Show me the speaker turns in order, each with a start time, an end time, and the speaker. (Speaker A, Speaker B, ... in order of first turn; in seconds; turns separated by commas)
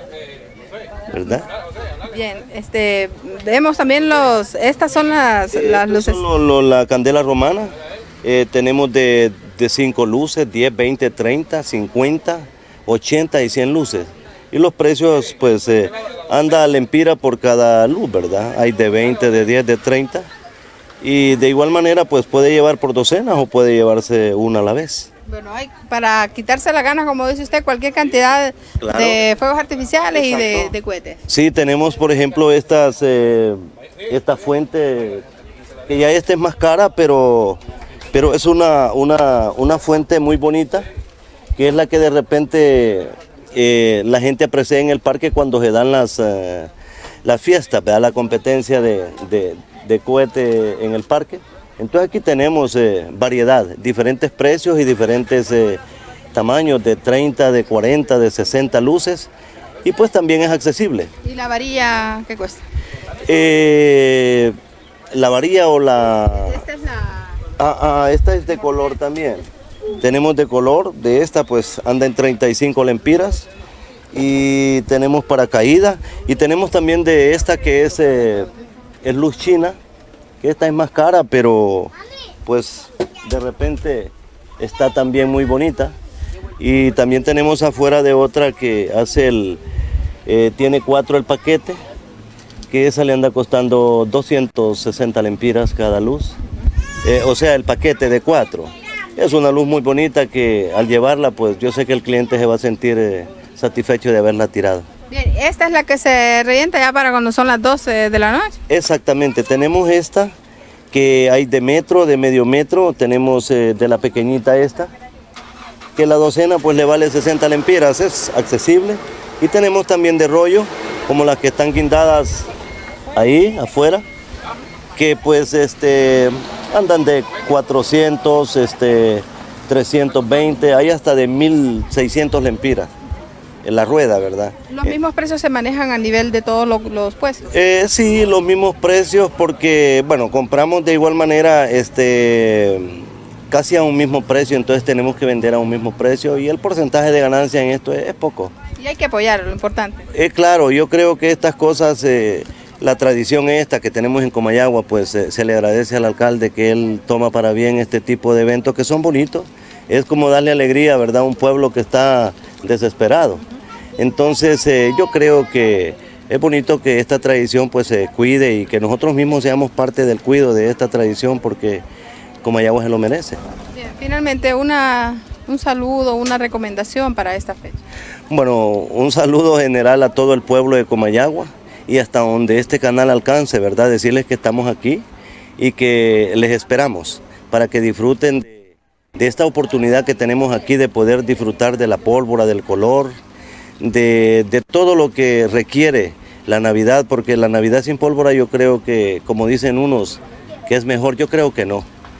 Speaker A: 1.1-1.5, Speaker B: 2.1-6.2, Speaker A: 5.5-20.3, Speaker A: 21.0-25.1, Speaker B: 25.3-31.2, Speaker A: 28.8-29.2, Speaker A: 30.1-30.7, Speaker A: 31.3-35.2, Speaker A: 35.9-37.6, Speaker A: 38.1-40.9, Speaker A: 41.5-46.7, Speaker A: 47.2-55.8, Speaker A: 56.3-59.3, Speaker A: 59.8-61.1, Speaker B: 61.2-62.6, Speaker A: 63.3-64.5, Speaker A: 65.1-66.6, Speaker B: 66.5-67.4, Speaker A: 67.6-69.5, Speaker A: 70.0-73.5, Speaker A: 74.1-78.5, Speaker A: 79.0-79.8, Speaker A: 80.4-81.9, Speaker A: 82.4-85.9, Speaker A: 86.6-89.6, Speaker A: 90.2-91.8, Speaker A: 92.7-96.3, Speaker A: 97.0-104.8, Speaker B: 105.1-108.6, Speaker A: 108.7-110.3, Speaker A: 110.9-114.9, Speaker A: 116.0-122.5, Speaker A: 123.1-124.0, Speaker A: 125.0-132.9, Speaker A: 133.6-135.0, Speaker B: 134.7-137.5, Speaker A: 137.5-148.5, Speaker B: 148.8-150.1, Speaker A: 150.1-163.4, Speaker A: 164.0-171.8, Speaker A: 172.4-173.4, Speaker B: 173.7-177.8, Speaker A: 178.3-185.0, Speaker A: 185.6-193.2, Speaker A: 193.8-201.9